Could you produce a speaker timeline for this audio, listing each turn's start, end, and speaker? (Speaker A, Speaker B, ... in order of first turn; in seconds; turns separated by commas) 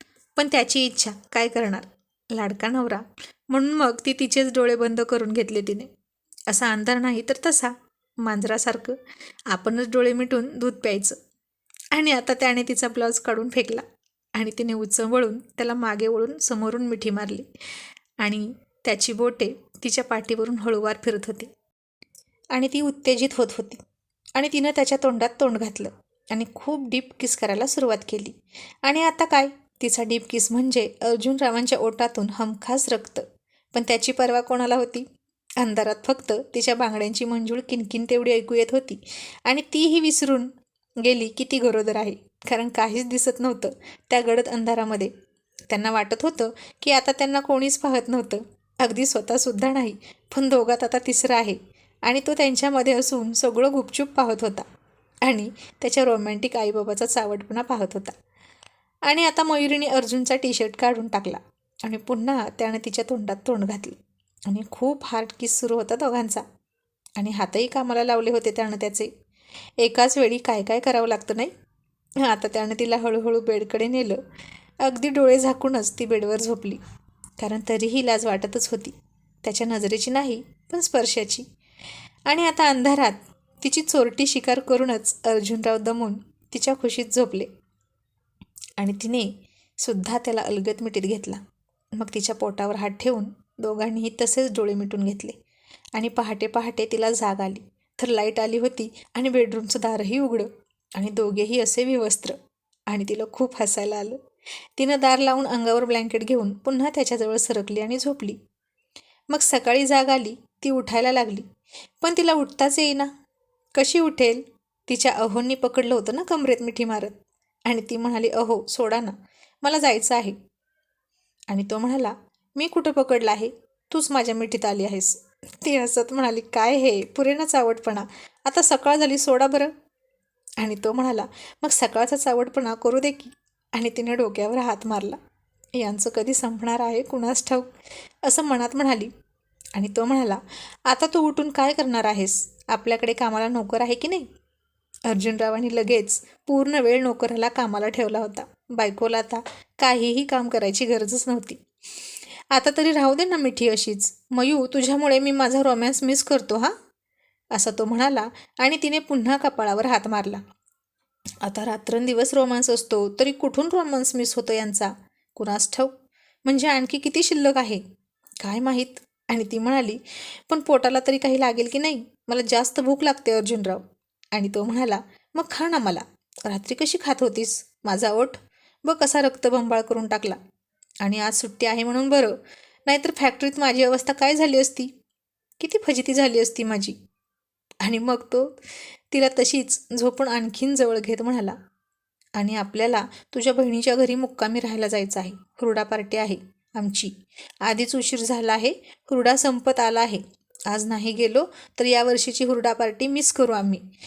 Speaker A: 0.3-5.9, Speaker A: 6.5-9.0, Speaker A: 9.5-11.2, Speaker A: 11.9-13.8, Speaker A: 14.3-17.5, Speaker A: 18.2-21.5, Speaker A: 22.5-23.8, Speaker A: 24.3-35.0, Speaker A: 35.6-45.1, Speaker A: 45.7-54.6, Speaker A: 55.2-58.1, Speaker A: 59.0-66.4, Speaker A: 67.2-69.1, Speaker A: 69.8-71.5, Speaker A: 72.2-74.2, Speaker A: 74.8-76.8, Speaker A: 77.4-81.5, Speaker A: 82.3-87.5, Speaker A: 88.8-91.4, Speaker A: 91.9-95.4, Speaker A: 95.9-102.4, Speaker A: 102.9-104.2, Speaker A: 104.8-108.4, Speaker A: 109.3-111.5, Speaker A: 112.0-113.1, Speaker A: 113.7-120.3, Speaker A: 121.5-129.7, Speaker A: 130.6-135.2, Speaker A: 135.8-139.1, Speaker A: 139.7-144.3, Speaker A: 145.1-151.6, Speaker A: 152.5-156.7, Speaker A: 157.5-160.4, Speaker A: 161.4-167.8, Speaker A: 168.4-180.4, Speaker A: 181.0-184.9, Speaker A: 185.6-187.0, Speaker A: 187.8-191.6, Speaker A: 192.3-203.8